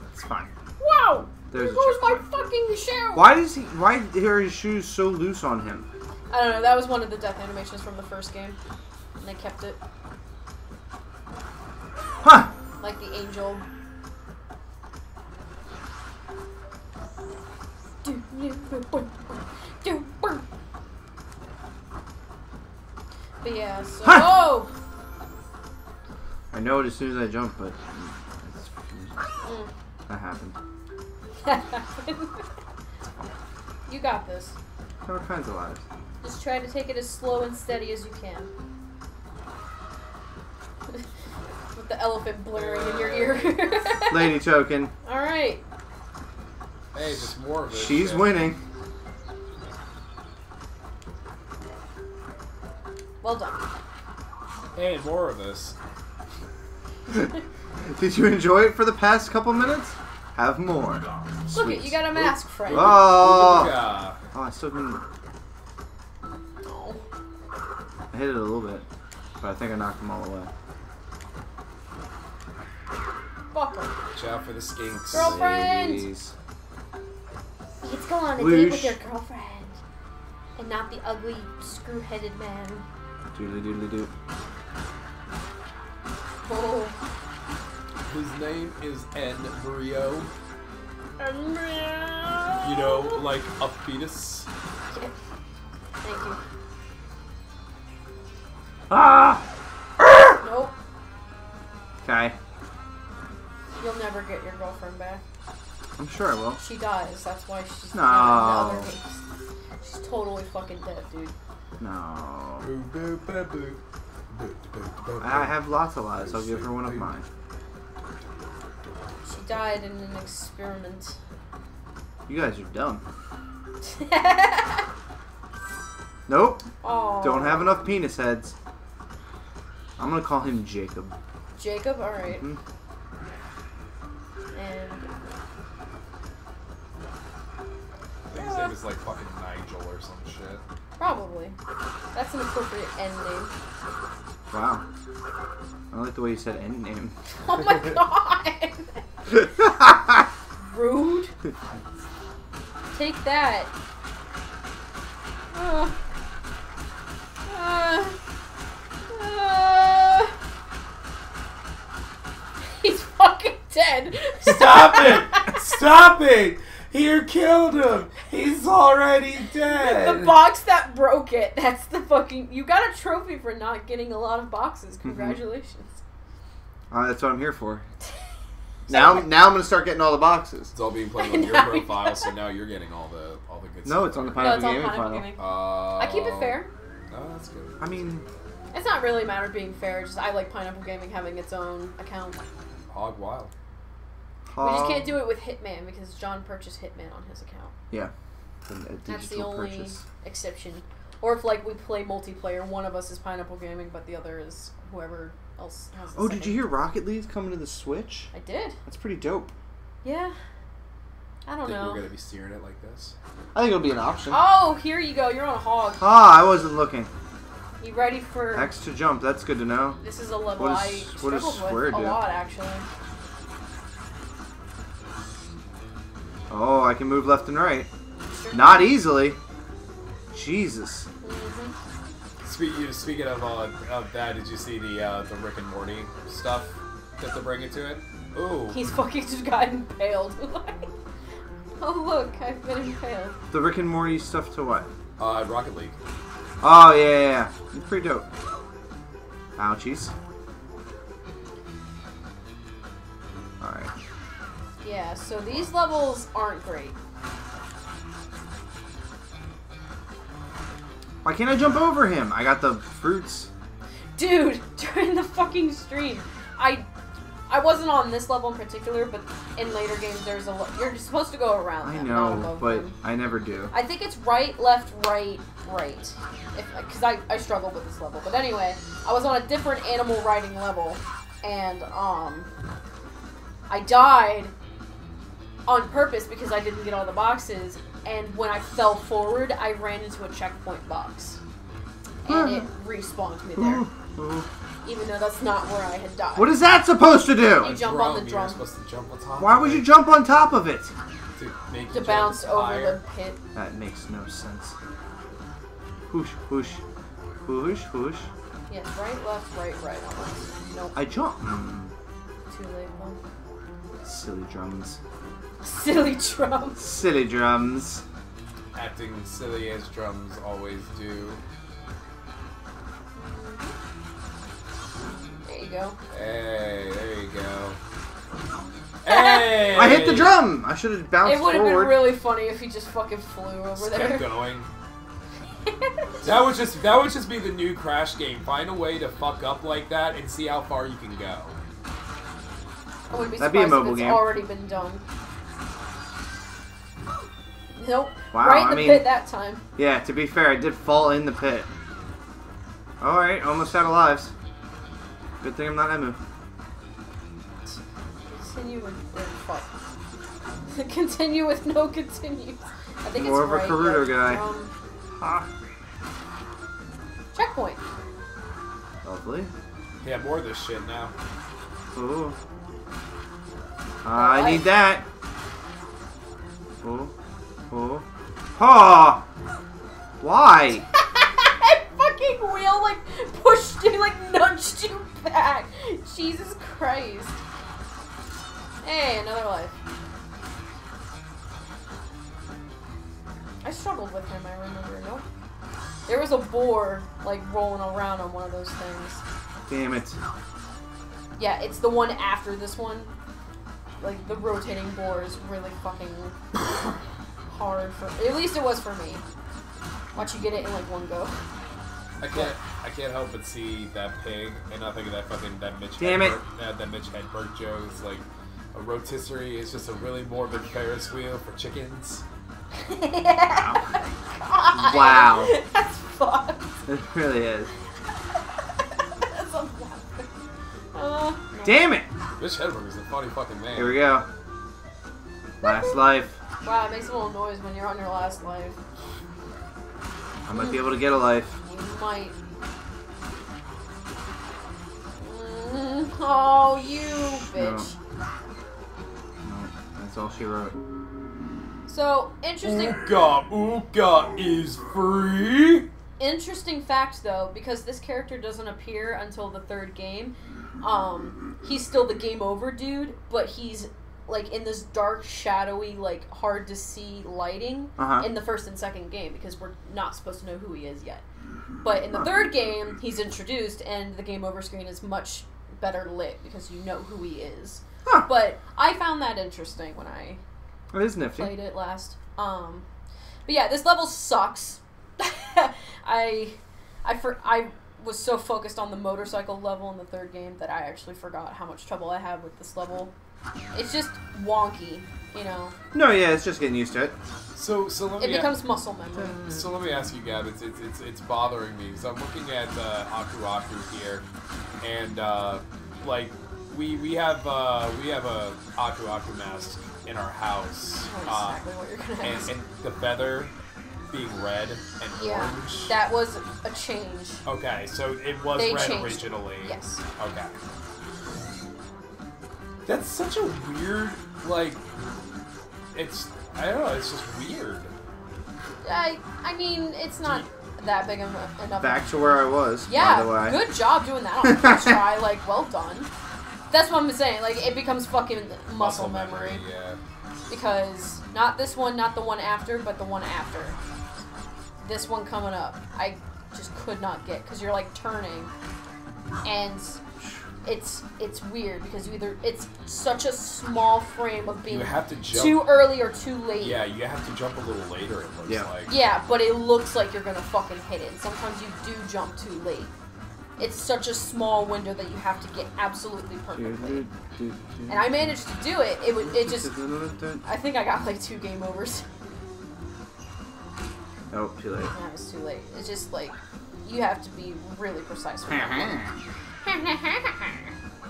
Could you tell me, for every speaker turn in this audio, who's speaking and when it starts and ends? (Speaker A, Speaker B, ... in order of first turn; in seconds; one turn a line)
Speaker A: 0.1-0.5
Speaker B: 0.8-3.3
Speaker A: 1.5-2.2
Speaker A: 3.1-5.9
Speaker B: 6.3-8.6
Speaker B: 9.2-9.8
Speaker A: 12.2-12.5
Speaker B: 12.8-13.7
Speaker B: 18.0-20.4
Speaker B: 23.4-24.7
Speaker A: 24.0-24.5
Speaker A: 26.5-29.2
Speaker B: 29.4-29.7
Speaker A: 30.1-30.6
Speaker B: 31.4-32.5
Speaker B: 33.9-34.5
Speaker A: 35.0-35.8
Speaker B: 36.2-38.5
Speaker B: 41.7-44.4
Speaker C: 42.5-43.6
Speaker A: 44.1-44.9
Speaker B: 45.0-45.6
Speaker C: 46.9-48.5
Speaker A: 47.0-48.6
Speaker B: 53.2-53.6
Speaker C: 54.7-55.7
Speaker A: 57.1-63.8
Speaker B: 61.5-63.1
Speaker C: 62.7-64.2
Speaker A: 64.3-65.0
Speaker B: 66.6-67.0
Speaker A: 68.1-68.8
Speaker A: 69.4-70.5
Speaker B: 73.5-73.9
Speaker C: 74.1-75.4
Speaker A: 75.0-76.3
Speaker B: 75.1-76.1
Speaker B: 77.8-79.8
Speaker A: 78.3-79.0
Speaker B: 80.5-82.8
Speaker A: 83.3-84.1
Speaker B: 86.4-87.0
Speaker C: 88.1-90.3
Speaker B: 91.2-93.2
Speaker C: 92.6-94.5
Speaker B: 96.0-96.4
Speaker A: 98.9-99.4
Speaker B: 100.4-100.7
Speaker A: 102.0-102.3
Speaker B: 103.8-105.2
Speaker A: 106.0-106.6
Speaker B: 106.6-109.2
Speaker A: 107.9-108.9
Speaker B: 109.8-111.3
Speaker A: 111.8-112.7
Speaker C: 112.6-117.1
Speaker A: 115.2-117.2
Speaker B: 119.2-121.2
Speaker A: 122.3-123.0
Speaker B: 123.8-124.8
Speaker A: 126.3-126.7
Speaker B: 126.8-127.8
Speaker A: 127.2-128.5
Speaker A: 130.0-131.2
Speaker B: 131.6-132.4
Speaker A: 132.3-132.6
Speaker B: 134.5-135.1
Speaker C: 138.3-140.6
Speaker B: 138.3-138.8
Speaker B: 141.0-141.6
Speaker B: 142.1-143.5
Speaker A: 144.5-144.8
Speaker A: 145.9-147.1
Speaker B: 147.3-149.0
Speaker A: 149.3-150.0
Speaker B: 150.6-151.3
Speaker B: 152.9-153.7
Speaker B: 155.5-155.9
Speaker B: 157.4-158.2
Speaker B: 159.1-160.3
Speaker B: 162.8-165.6
Speaker C: 164.4-170.4
Speaker B: 169.7-176.0
Speaker A: 175.0-175.4
Speaker A: 176.9-177.8
Speaker B: 178.9-179.3
Speaker A: 178.9-180.7
Speaker C: 180.7-184.8
Speaker B: 181.2-182.3
Speaker A: 183.8-185.3
Speaker B: 184.3-186.7
Speaker C: 185.4-187.8
Speaker A: 187.8-188.2
Speaker B: 188.7-192.4
Speaker C: 192.9-193.5
Speaker A: 194.5-195.2
Speaker B: 194.6-197.7
Speaker A: 198.6-200.0
Speaker B: 199.1-206.7
Speaker A: 206.1-208.3
Speaker B: 208.3-208.8
Speaker A: 208.8-209.5
Speaker B: 210.0-210.3
Speaker B: 211.4-212.0
Speaker C: 211.6-213.1
Speaker A: 213.5-214.4
Speaker B: 214.3-216.0
Speaker A: 216.0-217.1
Speaker B: 217.8-218.7
Speaker A: 218.5-220.0
Speaker B: 220.0-222.8
Speaker A: 220.6-222.2
Speaker A: 226.5-227.9
Speaker B: 228.3-228.9
Speaker A: 228.5-229.4
Speaker A: 230.3-231.1
Speaker B: 231.2-231.7
Speaker C: 232.4-238.8
Speaker B: 238.7-240.9
Speaker B: 241.8-243.4
Speaker A: 243.5-244.9
Speaker C: 245.2-246.0
Speaker A: 246.6-248.3
Speaker A: 249.6-250.1
Speaker A: 253.6-253.9
Speaker B: 254.8-256.9
Speaker A: 261.2-263.5
Speaker B: 264.1-266.9
Speaker B: 267.5-272.9
Speaker A: 271.8-273.7
Speaker B: 273.7-282.5
Speaker B: 283.7-284.5
Speaker B: 285.6-291.4
Speaker B: 292.2-293.8
Speaker A: 292.2-292.7
Speaker A: 293.6-294.5
Speaker B: 294.8-296.6
Speaker A: 296.4-297.8
Speaker B: 297.6-298.6
Speaker C: 297.6-299.9
Speaker A: 299.4-300.9
Speaker C: 301.4-303.0
Speaker B: 301.9-303.4
Speaker A: 303.5-304.7
Speaker A: 306.1-306.8
Speaker A: 307.4-308.3
Speaker B: 308.7-311.1
Speaker A: 310.9-311.9
Speaker B: 312.5-313.2
Speaker A: 314.0-315.0
Speaker B: 315.6-316.8
Speaker A: 316.8-318.0
Speaker C: 318.7-321.4
Speaker B: 323.1-323.7
Speaker B: 325.4-326.0
Speaker C: 326.1-327.8
Speaker C: 329.0-330.4
Speaker B: 329.1-329.7
Speaker A: 329.7-332.1
Speaker B: 331.2-334.3
Speaker C: 333.8-334.7
Speaker B: 335.6-336.1
Speaker C: 336.2-341.6
Speaker B: 343.1-345.0
Speaker A: 343.4-344.3
Speaker B: 347.8-349.6
Speaker A: 348.3-349.1
Speaker A: 349.8-351.7
Speaker A: 353.0-354.3
Speaker A: 355.4-356.2
Speaker B: 357.6-359.7
Speaker B: 360.7-364.7
Speaker A: 363.1-364.4
Speaker A: 365.2-365.5
Speaker B: 367.3-367.8
Speaker A: 369.0-369.5
Speaker C: 370.0-371.1
Speaker A: 371.9-372.4
Speaker A: 374.0-375.1
Speaker B: 374.1-374.7
Speaker A: 376.8-377.1
Speaker A: 377.7-378.0
Speaker A: 378.6-379.2
Speaker A: 380.2-380.9
Speaker B: 380.9-387.4
Speaker B: 388.8-389.7
Speaker B: 393.6-395.2
Speaker B: 396.1-399.2
Speaker A: 399.7-400.2
Speaker B: 401.4-403.1
Speaker B: 404.0-406.3
Speaker B: 407.5-409.2
Speaker B: 410.1-411.3
Speaker C: 412.2-422.2
Speaker A: 416.0-416.4
Speaker B: 422.8-426.7
Speaker A: 423.5-423.8
Speaker A: 424.7-425.5
Speaker A: 426.9-427.7
Speaker B: 429.2-430.3
Speaker B: 430.9-431.9
Speaker A: 431.6-432.1
Speaker C: 432.4-434.1
Speaker A: 433.7-434.2
Speaker B: 435.6-436.1
Speaker A: 435.6-436.4
Speaker B: 436.6-438.8
Speaker A: 440.4-441.6
Speaker B: 440.5-441.0
Speaker B: 441.6-442.4
Speaker B: 445.2-447.9
Speaker A: 447.5-447.9
Speaker A: 449.4-450.8
Speaker B: 451.9-453.0
Speaker C: 452.6-455.9
Speaker B: 456.2-471.2
Speaker A: 468.0-468.3
Speaker B: 471.8-480.4
Speaker A: 480.9-481.5
Speaker B: 481.4-482.8
Speaker B: 483.4-493.1
Speaker B: 493.7-495.7
Speaker A: 495.9-497.1
Speaker C: 497.5-498.6
Speaker B: 498.2-499.4
Speaker A: 499.2-499.4
Speaker C: 499.5-504.2
Speaker C: 504.8-511.6
Speaker B: 511.1-512.5
Speaker C: 512.2-513.5
Speaker C: 514.1-516.0
Speaker B: 515.1-517.4
Speaker C: 517.4-520.6
Speaker B: 518.5-520.0
Speaker C: 522.9-524.8
Speaker C: 525.9-527.9
Speaker B: 528.8-536.1
Speaker A: 531.8-533.6
Speaker A: 534.4-535.0
Speaker B: 536.7-539.6
Speaker C: 538.7-540.0
Speaker B: 540.5-543.8
Speaker B: 544.8-548.5
Speaker B: 549.4-550.0
Speaker B: 550.6-556.8
Speaker C: 554.7-555.8
Speaker C: 556.6-558.9
Speaker B: 558.9-562.9
Speaker B: 563.6-567.0
Speaker A: 566.5-568.2
Speaker B: 567.9-569.7
Speaker A: 569.2-570.4
Speaker B: 570.4-572.0
Speaker A: 574.3-574.9
Speaker B: 574.9-579.0
Speaker A: 578.5-579.2
Speaker B: 579.6-580.7